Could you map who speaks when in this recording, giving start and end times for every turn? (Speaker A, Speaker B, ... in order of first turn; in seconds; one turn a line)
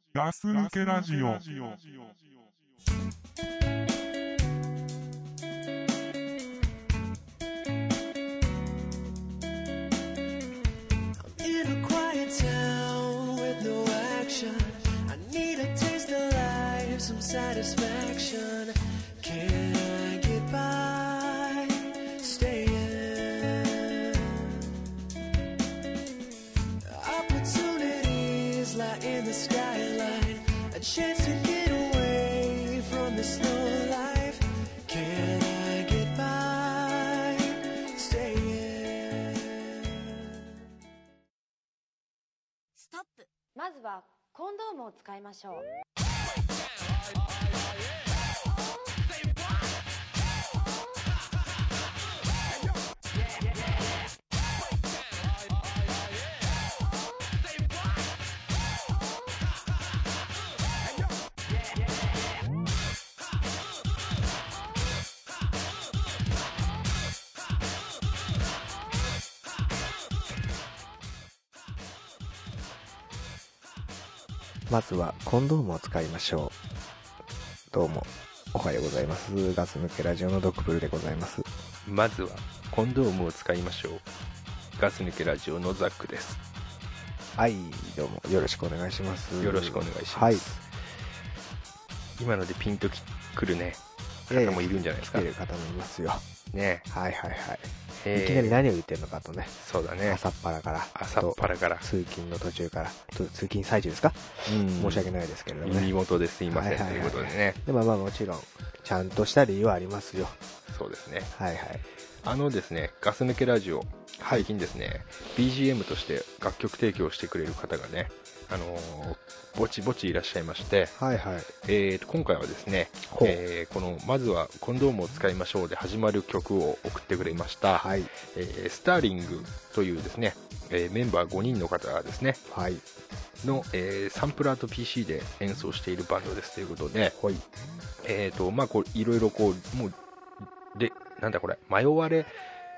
Speaker A: 0.1-2.2
Speaker B: 11.2-24.7
Speaker B: 26.8-40.2
Speaker C: 43.5-45.7
Speaker D: 74.7-76.6
Speaker D: 77.7-81.5
Speaker E: 81.8-84.1
Speaker E: 84.8-86.4
Speaker D: 87.4-90.5
Speaker E: 89.4-90.7
Speaker E: 92.2-95.3
Speaker D: 94.3-96.2
Speaker E: 96.5-96.9
Speaker D: 96.9-99.5
Speaker E: 98.0-98.6
Speaker E: 99.6-100.2
Speaker D: 100.1-105.9
Speaker E: 101.0-101.8
Speaker E: 104.5-105.1
Speaker E: 105.6-107.6
Speaker D: 106.5-110.4
Speaker E: 110.7-111.3
Speaker D: 111.3-111.8
Speaker E: 112.2-121.0
Speaker D: 114.2-114.5
Speaker D: 121.0-121.5
Speaker E: 121.6-132.4
Speaker D: 123.1-123.4
Speaker D: 127.8-128.1
Speaker D: 132.5-132.8
Speaker E: 133.4-137.2
Speaker D: 137.2-137.4
Speaker E: 138.0-140.0
Speaker E: 140.7-142.3